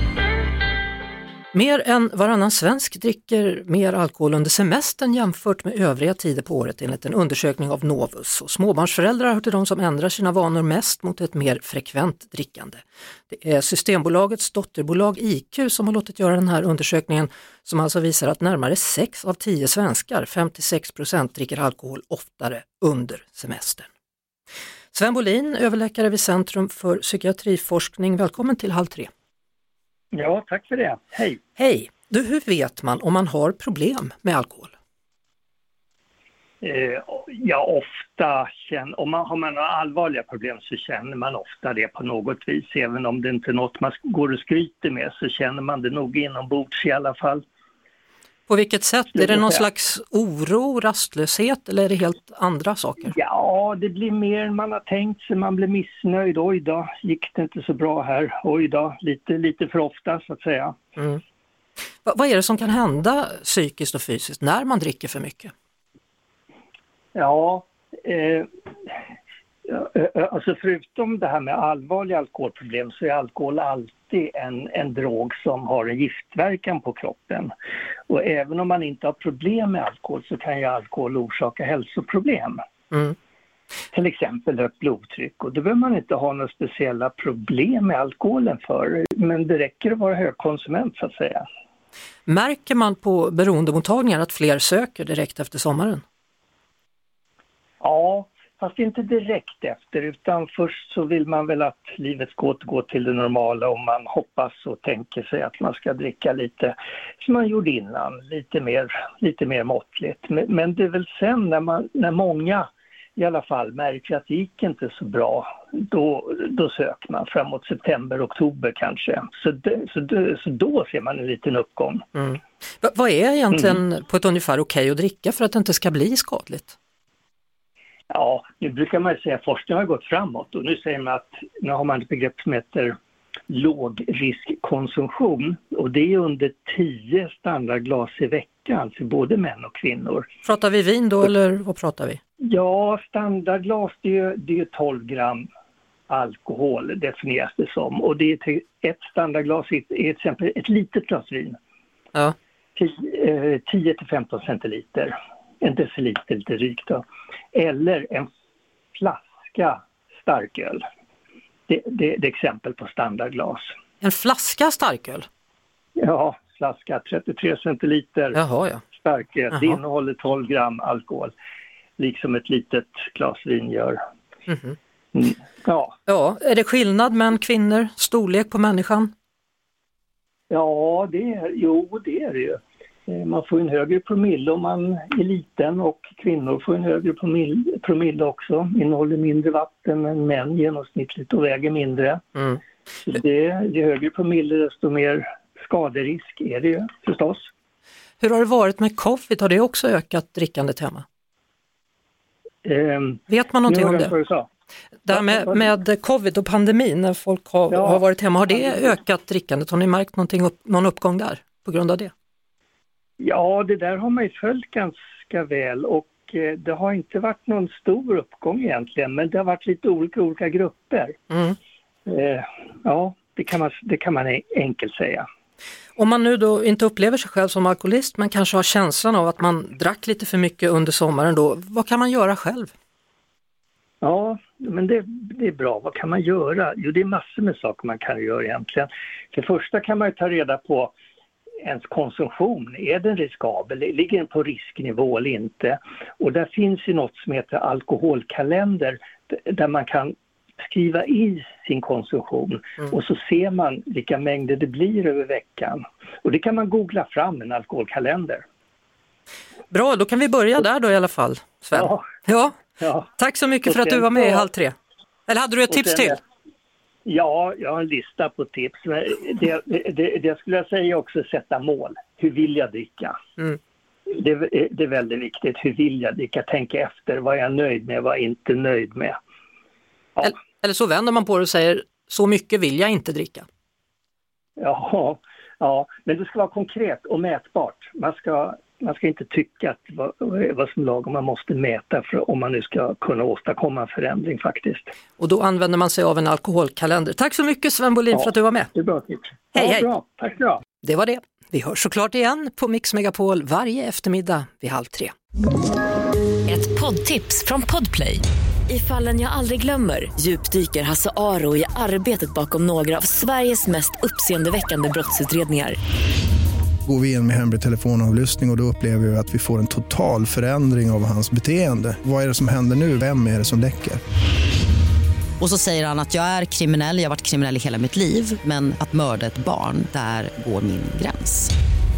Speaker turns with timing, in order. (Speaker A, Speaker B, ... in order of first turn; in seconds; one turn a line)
Speaker A: 1.5-23.9
Speaker A: 24.9-29.1
Speaker B: 30.1-31.4
Speaker A: 31.6-34.7
Speaker B: 36.6-47.4
Speaker A: 48.5-53.2
Speaker B: 49.1-49.6
Speaker B: 53.0-60.8
Speaker A: 62.0-65.5
Speaker B: 67.1-69.0
Speaker B: 69.7-77.5
Speaker B: 78.1-82.6
Speaker B: 83.9-91.5
Speaker A: 92.2-96.0
Speaker B: 97.8-122.1
Speaker A: 122.2-126.8
Speaker B: 123.5-123.8
Speaker B: 128.1-133.0
Speaker B: 133.5-140.3
Speaker A: 140.4-142.2
Speaker B: 142.5-145.4
Speaker B: 146.1-151.6
Speaker B: 152.8-158.3
Speaker B: 158.9-160.8
Speaker B: 161.7-163.8
Speaker A: 164.0-165.3
Speaker B: 166.0-168.4
Speaker A: 168.3-168.8
Speaker B: 169.0-171.3
Speaker B: 172.0-174.0
Speaker A: 174.5-174.8
Speaker B: 175.2-175.9
Speaker A: 176.1-179.1
Speaker B: 180.5-192.4
Speaker B: 193.0-197.5
Speaker A: 198.2-201.1
Speaker B: 202.7-204.5
Speaker A: 203.3-204.1
Speaker A: 205.0-212.1
Speaker B: 205.1-205.6
Speaker B: 207.7-208.9
Speaker B: 213.2-221.2
Speaker B: 222.1-225.2
Speaker A: 226.0-232.7
Speaker B: 234.0-240.9
Speaker B: 241.6-258.4
Speaker A: 259.7-262.6
Speaker B: 261.7-262.0
Speaker B: 262.8-263.1
Speaker A: 263.2-264.8
Speaker B: 263.6-264.5
Speaker A: 265.3-266.2
Speaker B: 265.7-266.2
Speaker B: 267.1-273.2
Speaker B: 274.1-279.2
Speaker A: 280.2-283.5
Speaker B: 284.6-294.9
Speaker A: 295.2-298.7
Speaker B: 298.1-300.6
Speaker A: 299.6-299.9
Speaker A: 300.8-305.1
Speaker C: 306.4-315.8
Speaker D: 316.9-324.0
Speaker E: 325.4-331.5